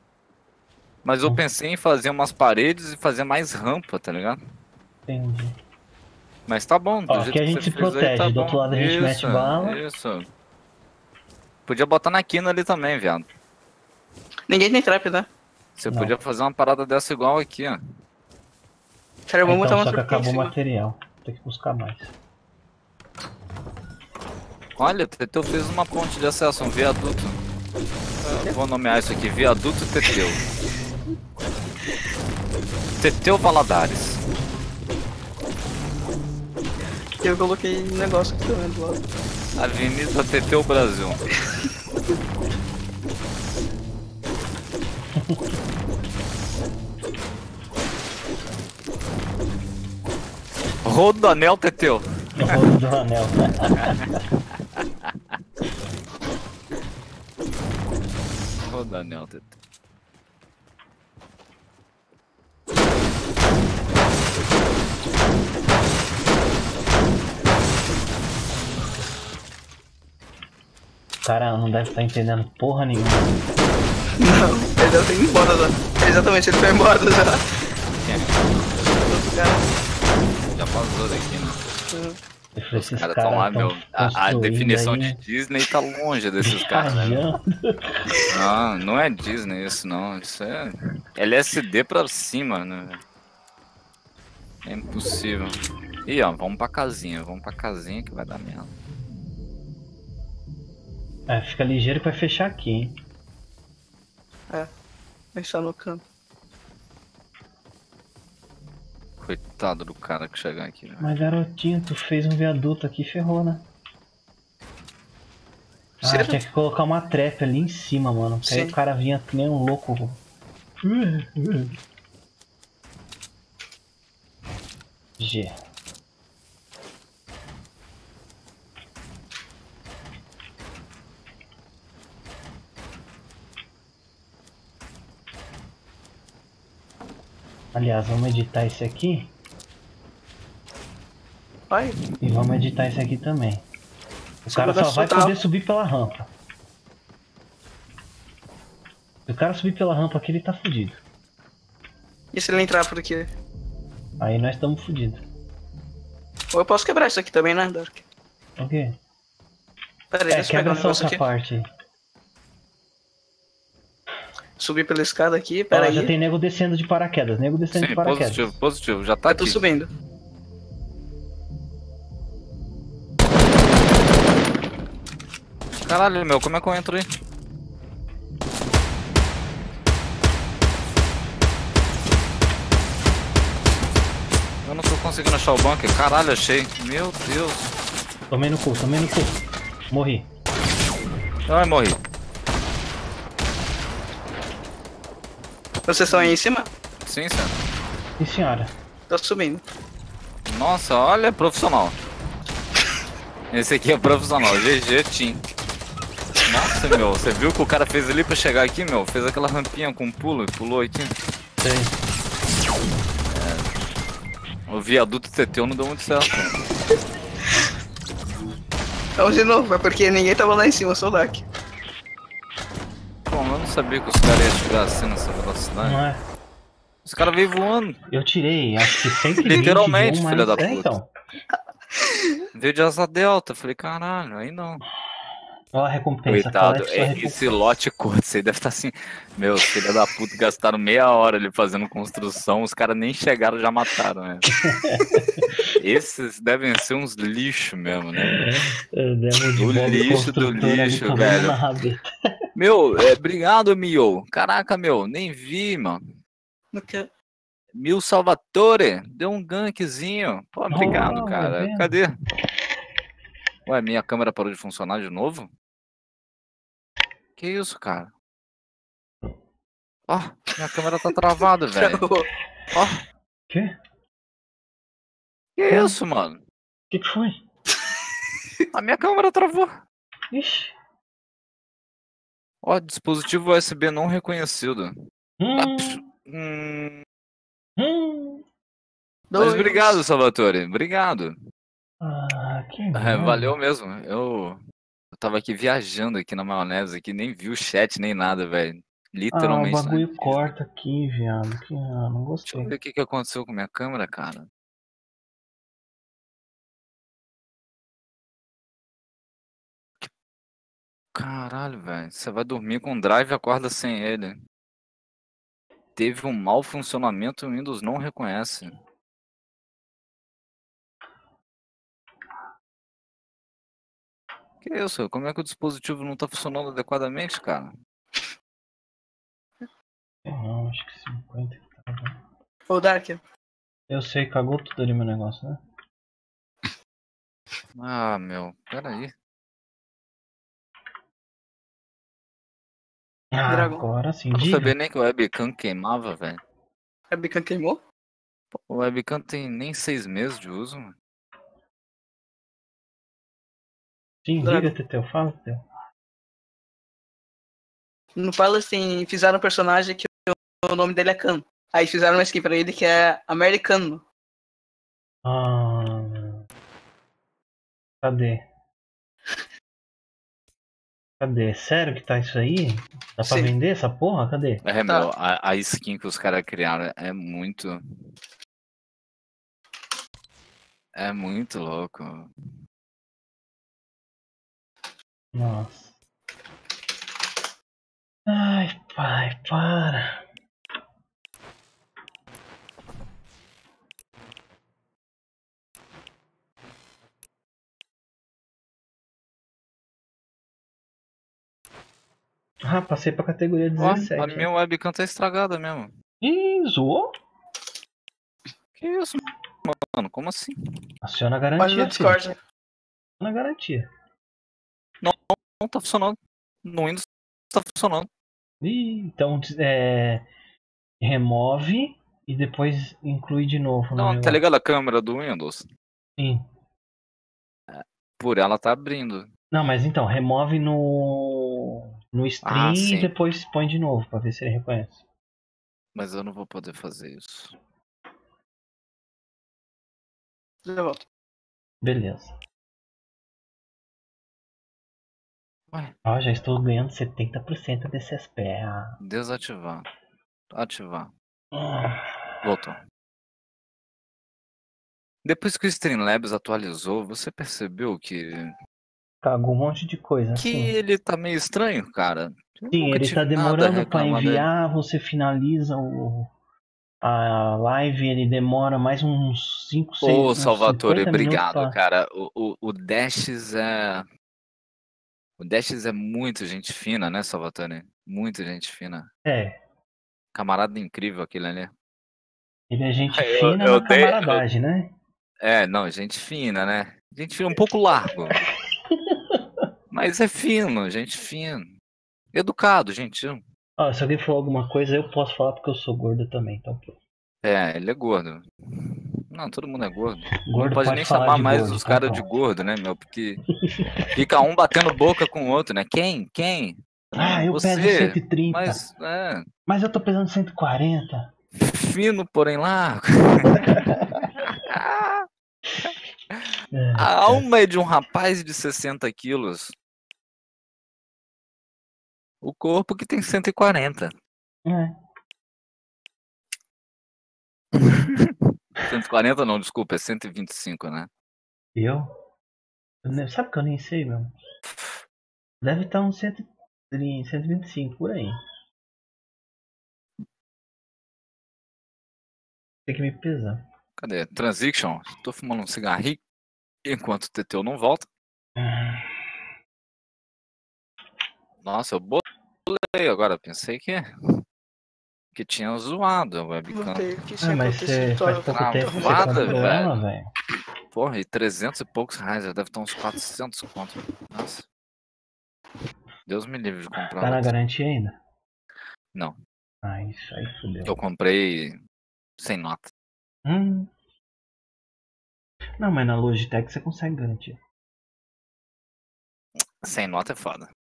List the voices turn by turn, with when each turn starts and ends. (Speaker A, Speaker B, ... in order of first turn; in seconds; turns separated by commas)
Speaker A: 1.0-4.4, Speaker B: 5.1-5.6, Speaker A: 6.5-10.3, Speaker B: 7.1-9.8, Speaker A: 11.7-13.3, Speaker C: 14.5-15.3, Speaker A: 15.8-17.8, Speaker C: 19.3-20.5, Speaker B: 19.4-22.1, Speaker A: 24.8-27.4, Speaker A: 28.2-30.4, Speaker A: 33.0-34.2, Speaker C: 37.2-39.0, Speaker A: 39.5-41.2, Speaker B: 45.1-45.5, Speaker A: 50.8-52.6, Speaker B: 52.4-54.1, Speaker A: 53.7-55.4, Speaker A: 58.7-59.5, Speaker B: 71.2-73.3, Speaker C: 74.2-77.4, Speaker A: 78.0-78.4, Speaker C: 79.0-79.7, Speaker A: 80.5-81.6, Speaker C: 81.9-82.2, Speaker B: 82.5-85.2, Speaker A: 82.7-87.2, Speaker B: 86.4-88.1, Speaker A: 88.3-93.0, Speaker A: 94.6-98.7, Speaker B: 101.3-102.9, Speaker C: 105.3-106.0, Speaker A: 109.2-111.1, Speaker B: 111.0-113.7, Speaker C: 116.0-116.4, Speaker B: 116.0-120.2, Speaker C: 118.4-118.7, Speaker B: 120.8-121.8, Speaker B: 125.2-125.5, Speaker B: 137.7-139.3, Speaker C: 141.7-141.9, Speaker B: 142.2-143.6, Speaker B: 144.4-146.3, Speaker C: 144.5-145.3, Speaker B: 149.3-151.0, Speaker C: 152.3-153.3, Speaker B: 154.2-155.2, Speaker C: 156.5-158.0, Speaker B: 158.6-159.0, Speaker C: 160.1-161.2, Speaker B: 160.3-161.7, Speaker C: 164.6-166.1, Speaker B: 165.7-168.5, Speaker A: 167.7-169.6, Speaker C: 169.3-169.9, Speaker A: 175.8-177.1, Speaker A: 184.6-187.7, Speaker B: 188.3-189.4, Speaker B: 189.9-190.3, Speaker A: 191.4-192.0, Speaker C: 195.9-196.7, Speaker A: 197.0-197.6, Speaker B: 198.2-198.7, Speaker C: 199.1-199.6, Speaker A: 200.4-201.9, Speaker A: 203.5-205.4, Speaker A: 206.4-211.1, Speaker B: 211.6-211.9, Speaker A: 213.3-213.7, Speaker A: 214.7-216.6, Speaker C: 219.2-221.4, Speaker A: 223.3-226.0, Speaker B: 225.8-226.2, Speaker A: 227.1-228.0, Speaker B: 228.1-231.1, Speaker A: 229.4-230.9, Speaker A: 232.5-234.8, Speaker B: 235.7-237.6, Speaker A: 236.3-244.5, Speaker B: 244.5-245.5, Speaker A: 245.8-248.4, Speaker B: 248.2-252.1, Speaker A: 249.6-251.6, Speaker A: 252.6-256.0, Speaker C: 256.7-257.1, Speaker A: 257.7-262.1, Speaker B: 260.7-261.9, Speaker A: 263.6-265.5, Speaker A: 267.4-268.1, Speaker A: 270.1-272.0, Speaker C: 271.8-272.3, Speaker A: 272.7-273.0, Speaker B: 273.5-273.8, Speaker A: 275.6-276.4, Speaker B: 275.7-275.9, Speaker B: 276.9-277.4, Speaker A: 278.7-279.8, Speaker B: 280.3-280.7, Speaker A: 282.6-284.9, Speaker B: 285.4-286.0, Speaker A: 285.6-287.0, Speaker B: 287.8-288.4, Speaker C: 289.3-290.0, Speaker A: 289.4-291.3, Speaker B: 292.0-293.5, Speaker A: 292.9-294.6, Speaker A: 295.1-300.5, Speaker B: 299.3-302.7, Speaker A: 302.5-304.5, Speaker A: 311.1-314.4, Speaker A: 315.9-318.7, Speaker A: 324.6-327.7, Speaker B: 330.2-332.2, Speaker C: 332.7-333.2, Speaker B: 333.9-335.6, Speaker A: 337.8-339.1, Speaker B: 343.3-344.7, Speaker C: 343.5-343.9, Speaker A: 344.3-346.4, Speaker C: 347.1-347.8, Speaker A: 348.5-350.9, Speaker B: 354.2-355.6, Speaker C: 354.4-354.7, Speaker C: 358.1-364.0, Speaker B: 365.2-366.4, Speaker B: 368.0-368.4, Speaker B: 371.2-374.6, Speaker C: 373.2-373.5, Speaker A: 374.6-377.8, Speaker A: 380.9-382.3, Speaker B: 385.3-385.9, Speaker B: 388.3-390.2, Speaker B: 402.6-404.5, Speaker A: 403.8-405.9, Speaker B: 406.2-407.1, Speaker A: 408.8-410.5, Speaker B: 411.0-412.2, Speaker C: 411.6-412.4, Speaker B: 413.2-413.9, Speaker A: 415.0-418.1, Speaker B: 418.6-420.2, Speaker B: 421.0-424.4, Speaker A: 423.9-425.7, Speaker B: 426.2-426.4, Speaker A: 427.7-429.3, Speaker B: 429.5-435.0, Speaker A: 432.4-433.1, Speaker A: 435.9-437.5, Speaker C: 440.6-441.0, Speaker B: 441.8-442.3, Speaker B: 446.0-449.0, Speaker A: 449.0-449.9, Speaker A: 450.5-451.1, Speaker B: 451.5-452.3, Speaker A: 452.4-452.8, Speaker A: 455.2-458.5, Speaker B: 459.2-460.8, Speaker A: 460.4-464.5, Speaker B: 462.7-466.3, Speaker B: 467.0-471.8, Speaker A: 470.0-474.1, Speaker A: 475.4-479.1, Speaker B: 479.2-479.6, Speaker A: 480.3-481.7, Speaker B: 482.7-484.9, Speaker A: 483.1-484.4, Speaker A: 485.4-488.4, Speaker B: 488.9-489.4, Speaker A: 489.9-491.7, Speaker A: 492.3-493.4, Speaker B: 493.8-496.9, Speaker A: 497.4-503.4, Speaker B: 500.4-502.2, Speaker A: 504.1-509.5, Speaker B: 507.1-508.8, Speaker B: 509.7-511.3, Speaker A: 511.6-515.3, Speaker A: 515.8-519.7, Speaker B: 516.7-517.5, Speaker A: 522.4-524.1, Speaker B: 524.6-525.0, Speaker A: 527.8-531.1, Speaker B: 531.7-532.1, Speaker B: 533.0-534.3, Speaker B: 535.6-538.4, Speaker B: 542.9-543.6, Speaker A: 544.0-546.2, Speaker A: 546.8-548.1, Speaker B: 548.5-549.3, Speaker A: 551.6-554.0, Speaker A: 555.3-557.1, Speaker C: 556.7-559.7, Speaker B: 557.4-560.3, Speaker A: 558.5-560.0, Speaker A: 560.9-564.6, Speaker A: 566.2-567.5, Speaker B: 567.2-568.2, Speaker B: 569.8-570.9, Speaker A: 570.8-571.8, Speaker A: 572.4-572.9, Speaker B: 573.4-573.9, Speaker B: 575.8-577.6, Speaker A: 579.8-580.7